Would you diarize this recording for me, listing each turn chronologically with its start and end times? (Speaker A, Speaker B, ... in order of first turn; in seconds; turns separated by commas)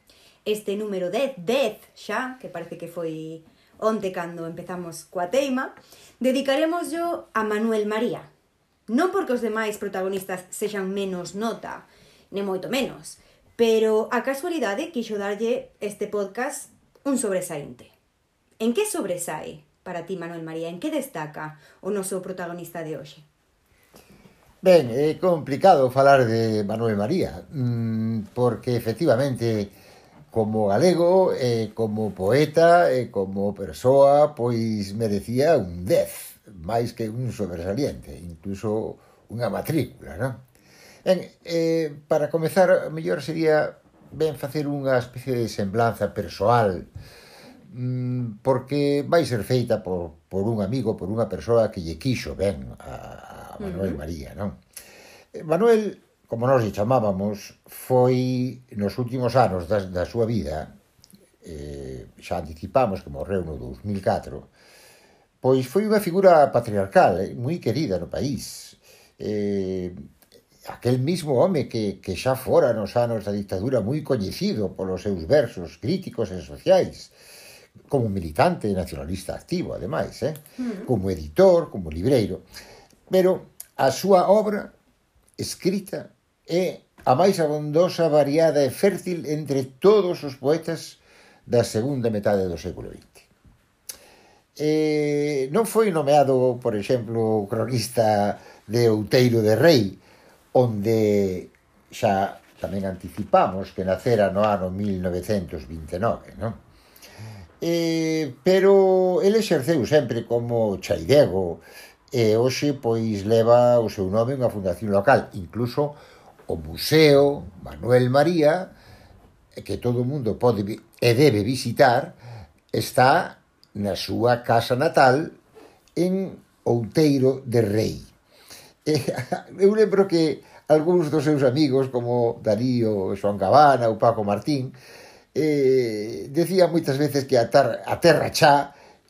Speaker A: 0.4-8.3, Speaker A: 8.9-17.9, Speaker A: 18.6-23.2, Speaker B: 24.6-29.7, Speaker B: 30.3-40.4, Speaker B: 41.0-46.9, Speaker B: 47.7-54.6, Speaker A: 53.6-54.0, Speaker B: 55.3-60.7, Speaker B: 61.4-64.5, Speaker B: 65.4-70.0, Speaker B: 70.7-77.1, Speaker B: 77.9-82.4, Speaker A: 80.6-80.9, Speaker B: 83.1-84.7, Speaker B: 85.4-93.3, Speaker B: 94.5-100.0, Speaker B: 100.5-106.6, Speaker B: 107.6-118.7, Speaker B: 119.5-122.2, Speaker B: 122.7-125.4, Speaker B: 126.0-128.1, Speaker B: 128.8-134.7, Speaker B: 135.3-138.7